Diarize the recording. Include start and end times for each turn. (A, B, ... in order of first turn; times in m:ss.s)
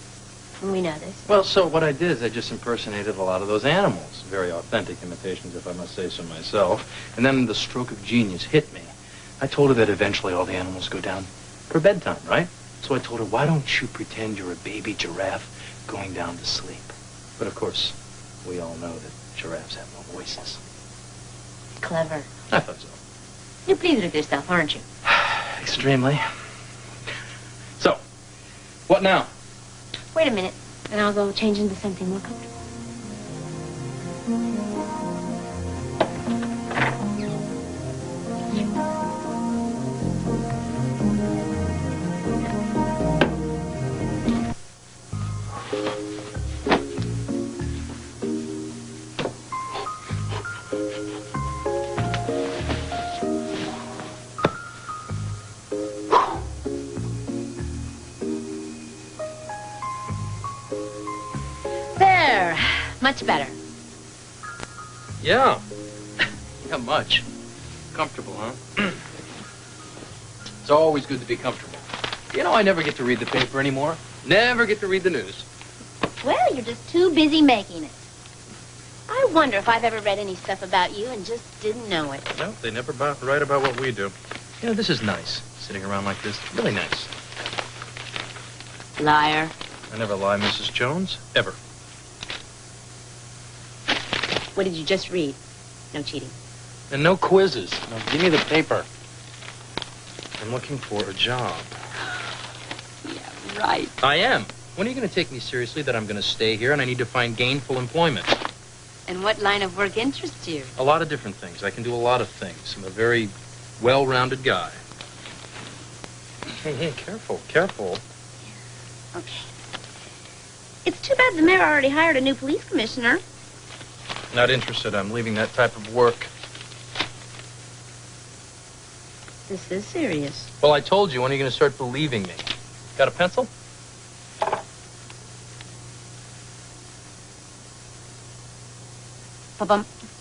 0:00.6-0:01.2 A
0:01.3-0:20.6 B
0:21.8-0:22.3 A
0:22.5-0:23.0 B
0:23.6-0:24.8 A
0:25.0-0:26.4 B
0:28.9-0:29.3 B
0:30.1-0:32.4 A
1:02.0-1:03.6 A
1:05.2-1:05.6 B
1:06.6-1:07.2 B
1:07.9-1:09.0 B
1:10.6-1:15.4 B
1:16.2-1:17.9 A
1:19.1-1:22.3 A
1:22.3-1:27.1 B
1:29.0-1:29.5 A
1:29.9-1:31.6 B
1:34.5-1:35.4 A
1:35.9-1:36.3 A
1:36.9-1:38.9 B
1:40.4-1:41.7 B
1:43.0-1:43.9 A
1:44.0-1:48.3 B
1:49.1-1:50.7 A
1:50.8-1:54.8 B
1:56.6-1:58.0 B
1:59.1-1:59.5 A
2:00.8-2:03.2 A
2:04.3-2:06.3 B
2:09.5-2:10.5 A
2:10.6-2:12.4 B
2:13.0-2:13.5 B
2:19.6-2:19.9 A